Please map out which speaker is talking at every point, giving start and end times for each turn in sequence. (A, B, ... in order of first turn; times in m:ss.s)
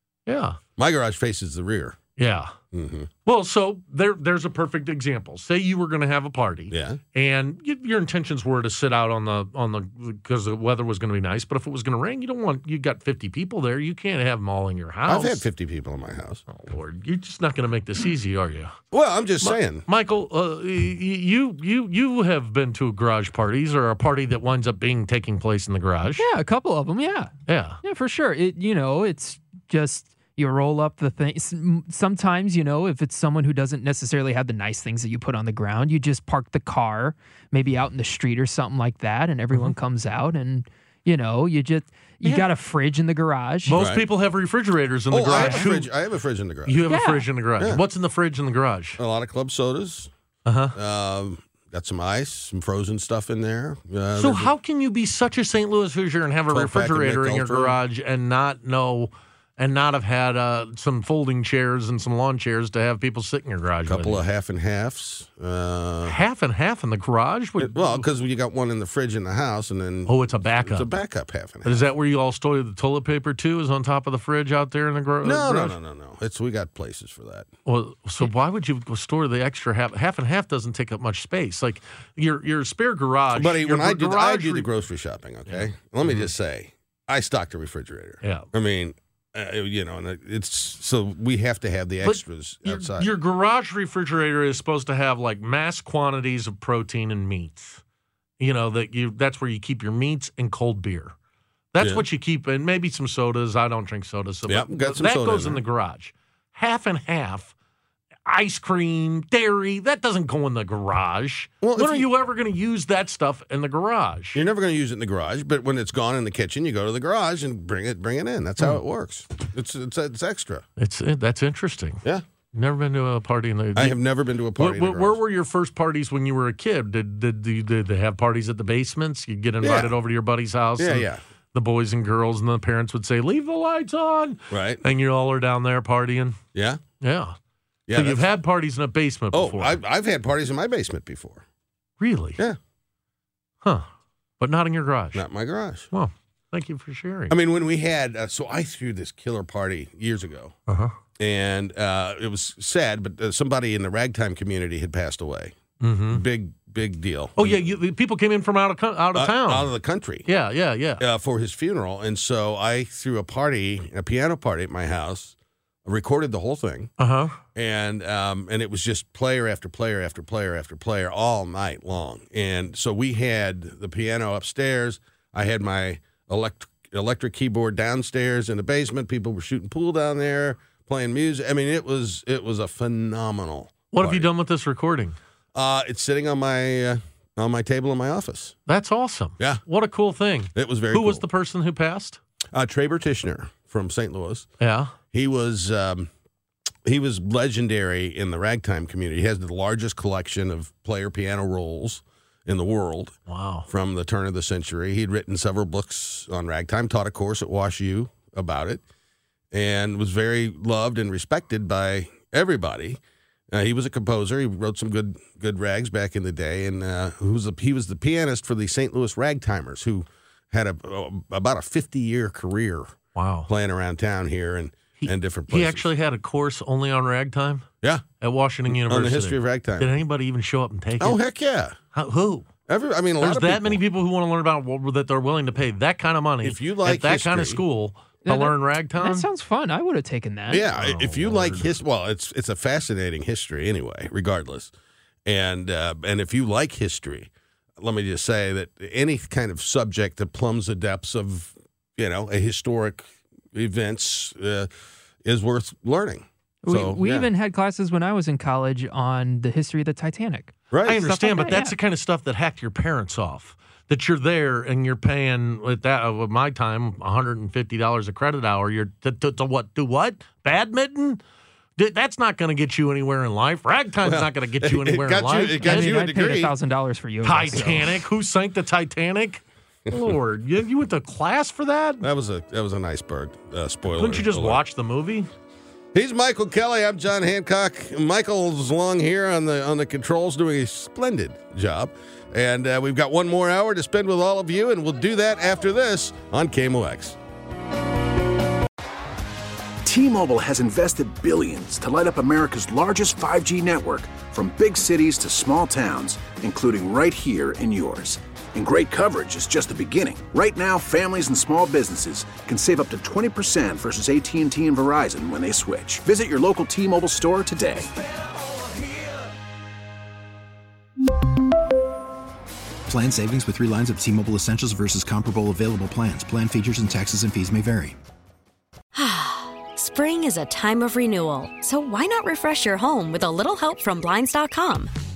0:00.2-0:00.6 A
0:00.8-0:02.0 B
0:02.2-0:02.5 A
0:02.7-0:03.1 B
0:03.2-0:15.4 A
0:06.7-0:07.0 B
0:15.0-0:16.4 B
0:16.5-0:18.8 A
0:18.9-0:19.8 B
0:19.4-0:26.2 A
0:26.2-0:27.3 C
0:27.5-0:27.8 A
0:27.8-0:43.8 C
0:43.6-0:45.9 A
0:43.7-0:44.0 B
0:45.1-0:46.9 B
0:45.3-0:45.6 C
0:46.6-0:49.0 A
0:46.9-0:47.3 C
0:49.0-0:50.1 B
0:50.4-0:50.7 A
0:50.7-0:54.5 B
0:54.2-1:04.2 A
0:56.5-0:57.8 B
1:03.8-1:06.2 B
1:06.0-1:08.1 A
1:07.6-1:11.9 B
1:10.1-1:10.9 A
1:11.6-1:15.8 A
1:15.2-1:17.5 B
1:17.6-1:24.7 A
1:23.3-1:33.1 B
1:25.5-1:26.3 A
1:28.2-1:28.5 A
1:32.0-1:37.8 A
1:38.4-1:41.1 A
1:41.7-1:47.5 A
1:41.8-1:42.0 B
1:44.5-1:45.6 B
1:48.2-1:54.4 A
1:51.6-1:52.1 B
1:54.3-2:00.6 B
2:00.8-2:02.0 A
2:02.5-2:04.0 A
2:03.7-2:05.2 B
2:04.6-2:16.4 A
2:09.6-2:09.9 B
2:10.8-2:11.2 B
2:14.5-2:14.8 B
2:16.5-2:16.8 B
2:17.0-2:17.4 A
2:17.9-2:18.3 B
2:17.9-2:19.8 A
2:19.3-2:21.4 B
2:22.0-2:22.4 A
2:23.6-2:23.9 A
2:24.4-2:25.2 A
2:25.1-2:25.9 B
2:25.9-2:27.4 A
2:27.3-2:30.5 B
2:30.7-2:30.9 A
2:31.2-2:35.6 B
2:35.8-2:36.2 A
2:36.1-2:37.7 B
2:37.4-2:39.7 A
2:39.1-2:40.2 B
2:40.2-2:41.0 A
2:41.0-2:46.9 B
2:47.0-2:47.4 A
2:47.5-3:04.3 B
3:03.9-3:05.2 A
3:05.5-3:08.6 B
3:08.7-3:12.2 A
3:10.5-3:11.2 B
3:12.5-3:14.5 B
3:14.6-3:14.9 A
3:15.1-3:16.1 B
3:16.8-3:23.1 B
3:23.3-3:23.7 A
3:23.7-3:28.8 B
3:29.5-3:33.0 B
3:33.5-3:43.0 B
3:43.1-3:43.5 A
3:43.5-3:45.9 B
3:45.0-3:47.6 A
3:48.2-3:51.2 A
3:48.7-3:49.9 B
3:51.0-3:51.8 B
3:51.9-3:52.5 A
3:52.7-3:53.8 B
3:53.2-3:59.3 A
3:56.4-3:57.6 B
3:58.2-4:00.7 C
4:00.5-4:04.7 B
4:00.7-4:01.7 A
4:05.2-4:14.7 B
4:15.2-4:17.3 B
4:16.6-4:21.7 C
4:20.7-4:21.0 B
4:20.8-4:31.2 A
4:31.8-4:36.0 A
4:34.0-4:36.5 B
4:35.6-4:38.0 C
4:37.2-4:42.1 A
4:42.0-4:44.6 B
4:43.9-4:45.3 A
4:45.9-4:57.2 B
4:59.8-5:17.9 D
5:22.9-5:28.0 E
5:28.9-5:34.9 F